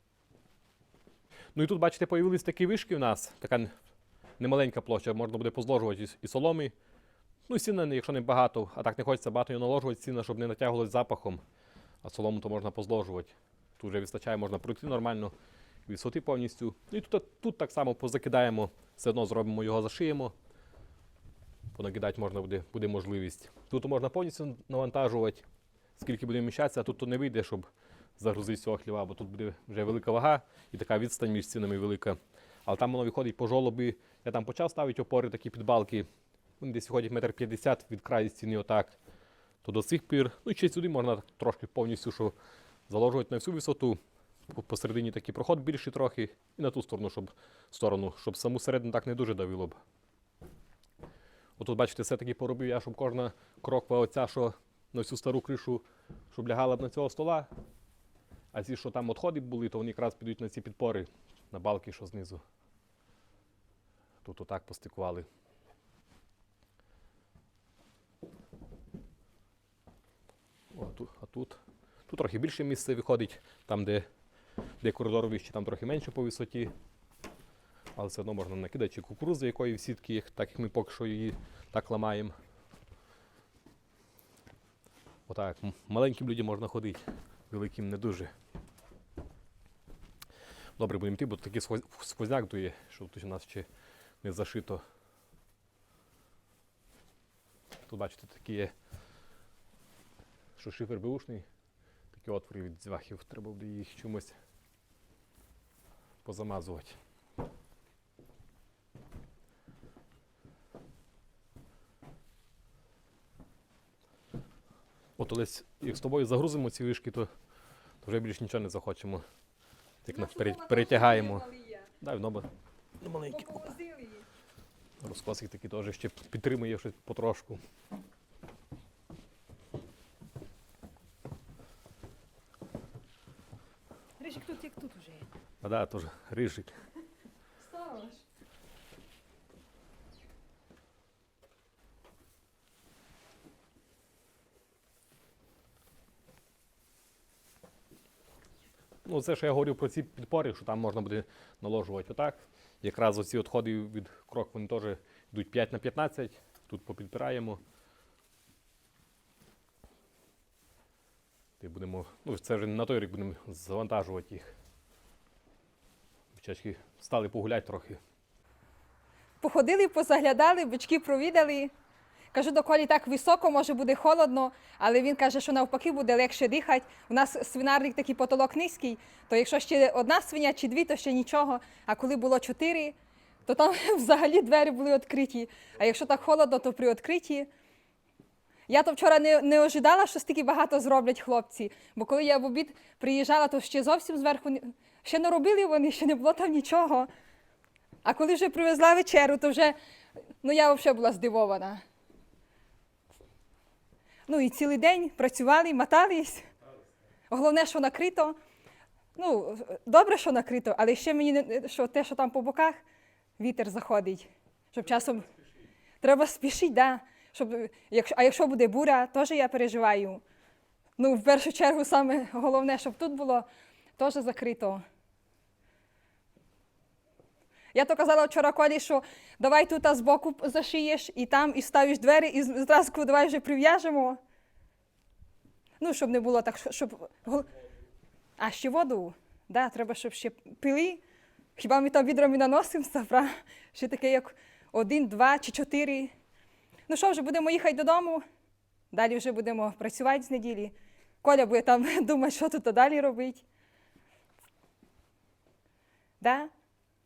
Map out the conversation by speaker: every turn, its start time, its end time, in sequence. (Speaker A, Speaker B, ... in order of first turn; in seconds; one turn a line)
Speaker A: 1.5-3.7
Speaker A: 4.4-6.7
Speaker A: 7.5-11.4
Speaker A: 12.0-15.3
Speaker A: 15.9-20.3
Speaker A: 21.7-25.4
Speaker A: 26.0-36.1
Speaker A: 36.6-39.0
Speaker A: 39.6-42.4
Speaker A: 42.9-49.8
Speaker A: 51.6-57.5
Speaker A: 58.5-62.4
Speaker A: 64.2-65.3
Speaker A: 70.7-74.1
Speaker A: 74.8-76.7
Speaker A: 78.0-82.3
Speaker A: 85.3-88.3
Speaker A: 90.8-93.7
Speaker A: 94.2-94.8
Speaker A: 97.9-98.7
Speaker A: 100.6-101.5
Speaker A: 102.1-104.4
Speaker A: 106.2-107.0
Speaker A: 115.2-117.3
Speaker A: 118.0-119.2
Speaker A: 120.0-121.5
Speaker B: 120.1-121.9
Speaker A: 122.0-122.5
Speaker A: 123.0-123.7
Speaker B: 123.3-124.3
Speaker A: 125.0-127.6
Speaker B: 134.2-135.3
Speaker A: 135.6-136.7
Speaker B: 137.6-138.2
Speaker A: 149.1-157.6
Speaker A: 161.6-164.5
Speaker A: 166.3-168.0
Speaker B: 169.4-171.7
Speaker B: 172.3-187.5
Speaker B: 188.7-197.1
Speaker B: 198.0-199.8
Speaker B: 200.4-201.8
Speaker B: 204.3-206.5
Speaker B: 207.3-208.4
Speaker B: 209.2-212.8
Speaker B: 213.4-215.3
Speaker B: 216.0-220.2
Speaker B: 221.0-224.8
Speaker B: 227.7-234.2
Speaker B: 235.8-237.5
Speaker B: 238.4-241.0
Speaker B: 241.6-246.1
Speaker B: 246.9-248.2
Speaker B: 248.9-253.4
Speaker B: 256.2-256.5